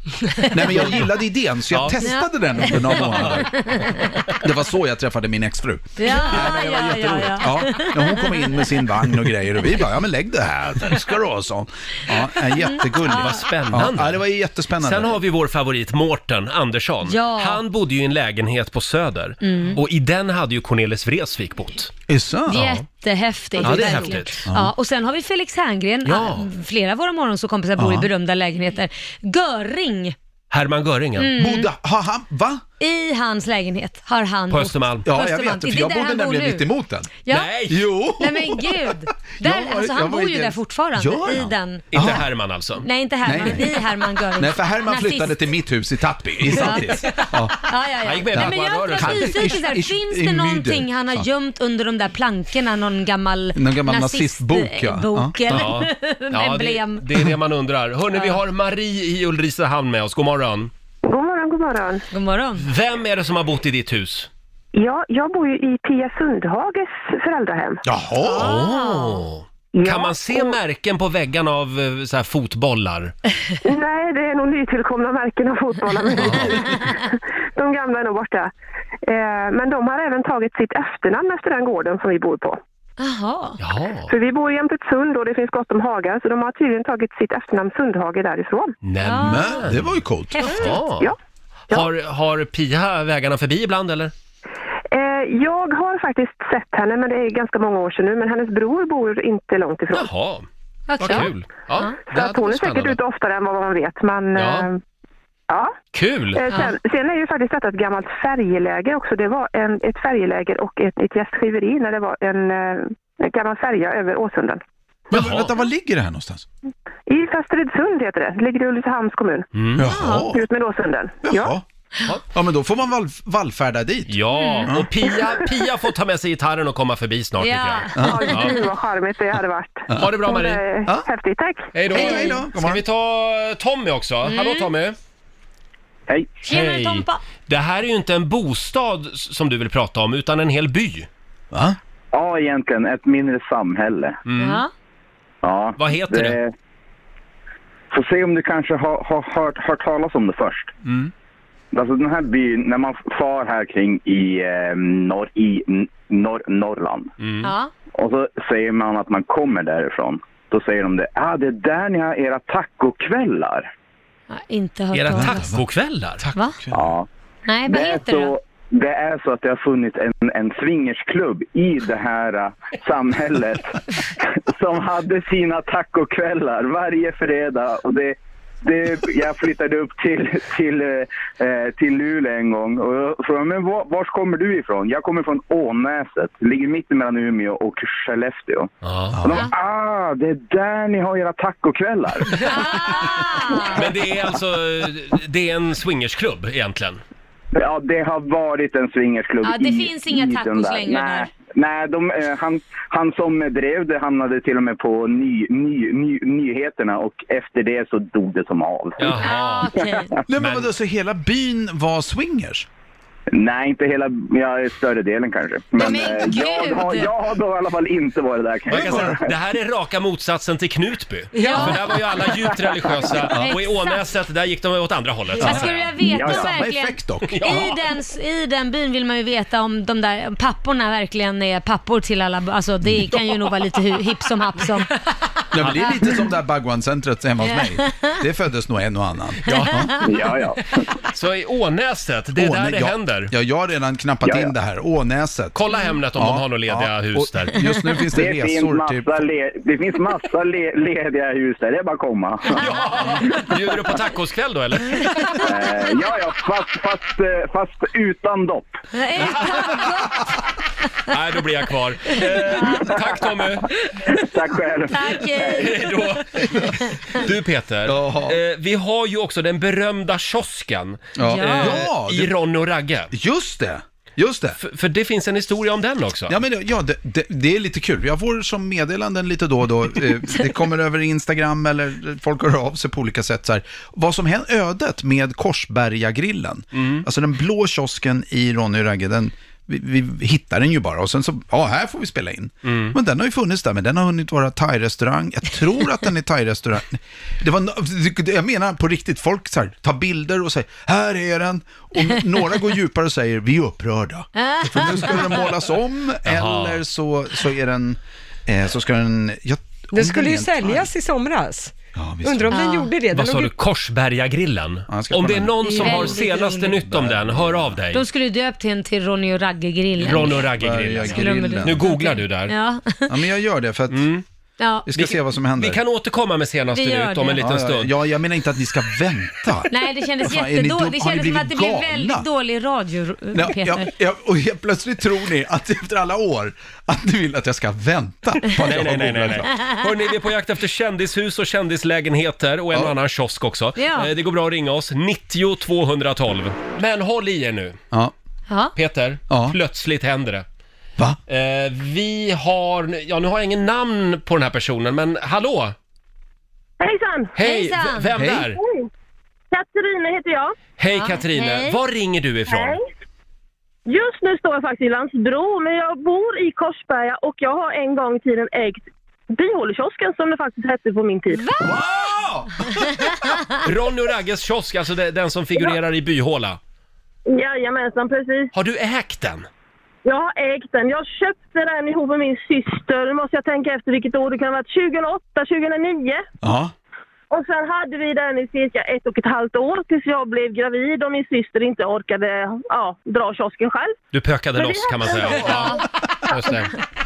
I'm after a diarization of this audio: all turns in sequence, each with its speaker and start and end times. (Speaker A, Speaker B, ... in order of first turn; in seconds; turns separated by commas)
Speaker A: 0.5-3.6, Speaker B: 0.7-1.0, Speaker B: 1.7-2.1, Speaker C: 2.0-4.2, Speaker B: 2.6-3.6, Speaker A: 4.4-15.2, Speaker C: 6.0-9.1, Speaker C: 12.5-13.7, Speaker B: 12.9-14.3, Speaker B: 14.8-21.9, Speaker C: 17.1-17.6, Speaker C: 19.4-19.8, Speaker A: 22.1-22.7, Speaker C: 22.5-30.2, Speaker B: 22.5-22.8, Speaker B: 23.6-24.4, Speaker A: 24.5-24.7, Speaker B: 26.1-26.5, Speaker A: 27.8-28.1, Speaker B: 30.5-31.3, Speaker C: 31.2-31.7, Speaker A: 31.4-32.6, Speaker C: 32.8-36.7, Speaker B: 34.5-35.1, Speaker A: 35.1-42.3, Speaker C: 37.2-41.9, Speaker B: 37.3-37.9, Speaker B: 41.9-42.9, Speaker C: 42.8-45.5, Speaker A: 43.2-47.7, Speaker C: 46.5-57.2, Speaker B: 48.0-49.7, Speaker A: 48.3-51.3, Speaker A: 53.5-55.9, Speaker B: 55.5-60.7, Speaker D: 61.1-62.0, Speaker C: 62.1-62.6, Speaker B: 62.6-64.3, Speaker D: 64.7-67.8, Speaker A: 67.8-68.6, Speaker C: 68.2-69.2, Speaker B: 68.3-73.2, Speaker D: 69.7-70.6, Speaker D: 73.6-78.5, Speaker B: 76.2-76.6, Speaker D: 79.1-82.6, Speaker C: 83.0-83.6, Speaker B: 83.6-84.1, Speaker D: 84.1-88.7, Speaker B: 88.8-89.8, Speaker C: 89.0-89.7, Speaker A: 89.2-90.5, Speaker C: 90.4-90.7, Speaker B: 90.4-91.1, Speaker D: 90.5-91.2, Speaker B: 91.7-94.1, Speaker D: 94.9-100.1, Speaker B: 99.9-100.5, Speaker C: 100.9-101.9, Speaker B: 101.0-103.0, Speaker D: 102.0-104.8, Speaker B: 104.3-104.7, Speaker B: 105.9-106.6, Speaker D: 106.4-114.6, Speaker A: 115.1-116.5, Speaker B: 115.1-115.5, Speaker D: 117.1-119.5, Speaker B: 119.5-119.9, Speaker A: 119.8-120.4, Speaker C: 119.8-120.3, Speaker D: 120.3-121.5, Speaker A: 121.2-121.7, Speaker A: 122.3-124.9, Speaker B: 124.1-128.6, Speaker C: 124.4-124.7, Speaker C: 127.4-128.4, Speaker A: 128.0-128.3, Speaker D: 128.0-131.7, Speaker A: 129.9-130.1, Speaker B: 129.9-130.6, Speaker B: 131.7-135.0, Speaker A: 131.9-132.8, Speaker C: 131.9-132.4, Speaker C: 134.2-134.7, Speaker E: 136.1-136.4, Speaker C: 136.4-137.2, Speaker B: 136.5-141.1, Speaker A: 141.5-141.8, Speaker E: 142.1-144.2, Speaker B: 144.3-144.6, Speaker C: 144.4-144.7, Speaker E: 145.4-146.5, Speaker B: 145.8-146.4, Speaker E: 147.9-150.7, Speaker E: 151.7-157.1, Speaker B: 157.2-157.5, Speaker C: 157.4-157.7, Speaker E: 157.9-163.7, Speaker C: 164.3-165.4, Speaker B: 164.9-166.2, Speaker A: 165.2-165.7, Speaker A: 166.2-166.9, Speaker E: 166.8-167.1, Speaker C: 167.5-168.3, Speaker E: 167.7-188.7, Speaker B: 188.8-189.4, Speaker A: 189.1-189.4, Speaker E: 189.3-192.4, Speaker C: 192.4-193.8, Speaker B: 193.7-197.0, Speaker E: 197.6-209.1, Speaker C: 199.4-201.3, Speaker B: 209.0-209.7, Speaker C: 209.1-210.2, Speaker A: 210.3-212.7, Speaker B: 210.3-210.7, Speaker E: 213.3-219.2, Speaker C: 215.8-217.1, Speaker B: 218.7-225.9, Speaker A: 218.7-219.2, Speaker F: 221.4-221.6, Speaker C: 221.4-221.9, Speaker C: 223.3-224.0, Speaker A: 225.4-227.7, Speaker C: 225.4-234.9, Speaker E: 226.2-226.5, Speaker B: 227.3-227.8, Speaker A: 235.5-240.0, Speaker C: 237.4-238.1, Speaker C: 239.5-240.1, Speaker E: 240.0-240.9, Speaker B: 241.1-243.3, Speaker A: 242.3-245.6, Speaker E: 244.2-244.5, Speaker B: 245.6-247.6, Speaker A: 246.2-249.2, Speaker E: 248.1-253.4, Speaker B: 252.5-255.5, Speaker E: 255.4-258.7, Speaker C: 258.9-260.3, Speaker B: 259.2-260.0, Speaker B: 261.1-263.7, Speaker C: 262.4-262.9, Speaker E: 264.1-265.7, Speaker C: 264.9-266.1, Speaker B: 265.4-273.1, Speaker A: 266.4-266.7, Speaker A: 267.9-268.4, Speaker A: 271.2-272.3, Speaker C: 271.3-271.9, Speaker A: 273.1-274.6, Speaker B: 274.6-276.4, Speaker A: 276.3-310.9, Speaker B: 286.7-287.1, Speaker B: 292.6-293.0, Speaker C: 304.4-305.4, Speaker B: 306.3-306.8, Speaker F: 309.9-313.5, Speaker A: 311.9-312.6, Speaker C: 312.5-312.9, Speaker B: 313.1-318.0, Speaker A: 314.9-317.8, Speaker C: 315.7-316.7, Speaker C: 317.9-323.2, Speaker B: 320.0-322.5, Speaker A: 320.1-321.9, Speaker A: 323.1-324.1, Speaker B: 323.9-324.2, Speaker C: 324.6-324.9, Speaker A: 324.9-325.8, Speaker B: 324.9-327.9, Speaker C: 326.8-327.5, Speaker A: 327.4-332.3, Speaker C: 329.7-333.9, Speaker A: 333.3-339.5, Speaker B: 338.6-347.8, Speaker C: 343.8-344.1, Speaker C: 348.5-348.8, Speaker B: 348.8-350.4, Speaker A: 349.3-349.6, Speaker B: 351.3-355.8, Speaker G: 356.8-357.3, Speaker B: 357.4-358.6, Speaker C: 357.4-358.1, Speaker A: 358.2-358.5, Speaker G: 358.5-358.9, Speaker G: 359.5-360.6, Speaker B: 360.8-362.8, Speaker C: 361.0-361.8, Speaker G: 362.5-362.8, Speaker G: 363.9-371.4, Speaker C: 371.3-371.8, Speaker A: 371.6-373.3, Speaker B: 373.6-376.6, Speaker G: 377.3-378.5, Speaker B: 378.5-379.5, Speaker G: 380.1-386.2, Speaker A: 386.4-386.7, Speaker G: 387.3-394.0, Speaker B: 394.1-396.7, Speaker G: 394.6-395.7, Speaker C: 395.4-395.8